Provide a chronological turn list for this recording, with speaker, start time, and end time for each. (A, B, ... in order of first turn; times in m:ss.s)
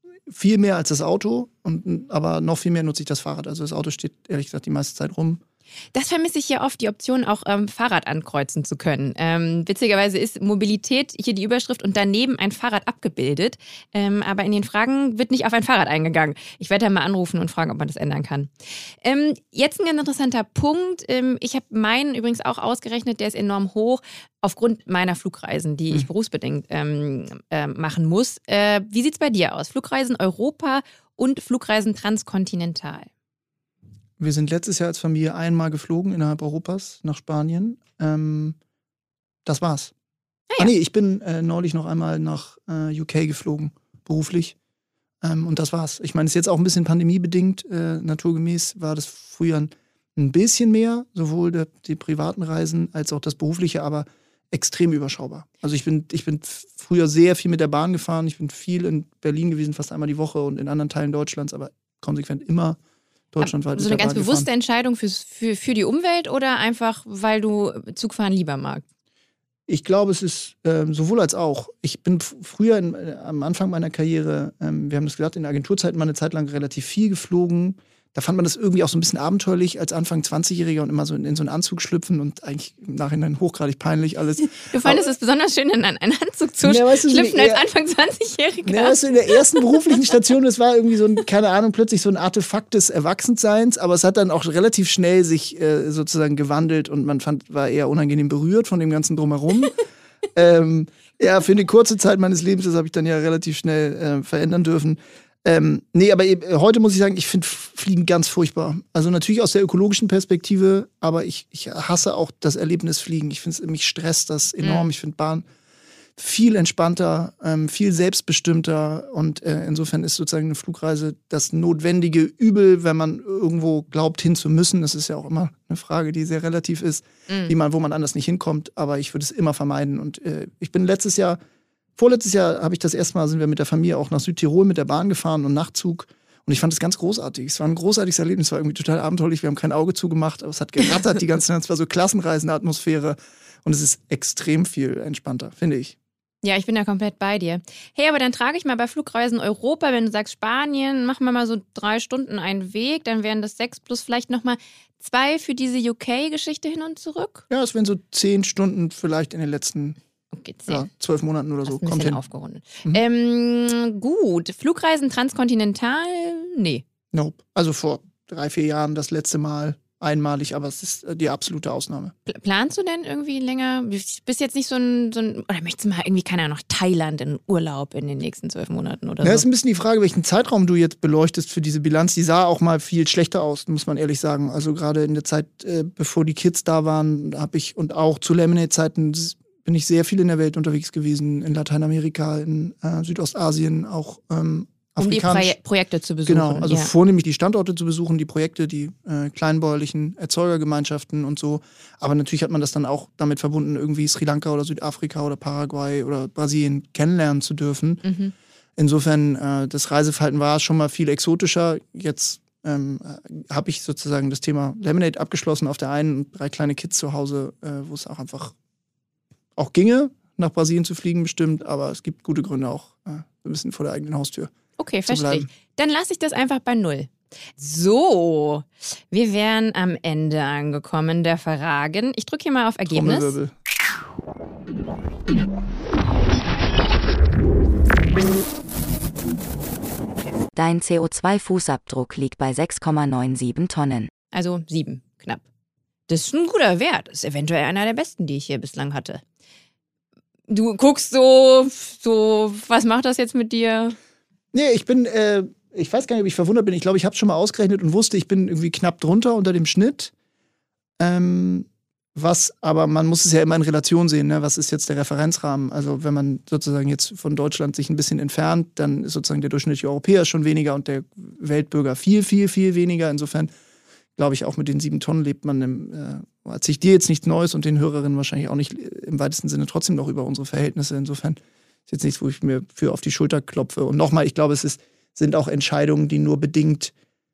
0:00.3-0:05.4 A
0:05.9-0:18.5 B
0:19.0-0:33.1 B
0:34.2-0:38.6 A
0:39.4-0:39.9 A
0:40.6-0:44.5 A
0:45.2-1:02.8 A
1:03.3-1:04.5 A
1:03.4-1:08.8 B
1:09.7-1:25.0 A
1:24.6-1:29.9 B
1:26.6-1:27.7 A
1:28.6-1:39.8 A
1:40.3-1:55.4 A
1:54.6-1:54.9 B
1:56.2-2:11.4 A
2:07.3-2:07.5 B
2:12.0-2:25.9 A
2:26.4-2:37.4 B
2:37.5-2:40.0 A
2:40.3-2:40.9 B
2:40.7-2:42.2 A
2:41.6-2:46.8 B
2:47.1-2:52.1 A
2:52.2-2:59.4 B
2:59.2-3:15.5 A
3:15.0-3:16.9 B
3:16.3-3:28.0 A
3:28.0-3:28.3 B
3:28.8-3:38.5 A
3:39.6-3:44.5 A
3:44.8-3:53.4 B
3:45.1-3:45.5 A
3:52.9-3:53.5 A
4:00.5-4:04.1 C
4:04.3-4:05.4 B
4:06.1-4:09.2 B
4:10.5-4:14.0 B
4:14.5-4:20.1 A
4:21.0-4:33.5 A
4:34.2-4:46.9 A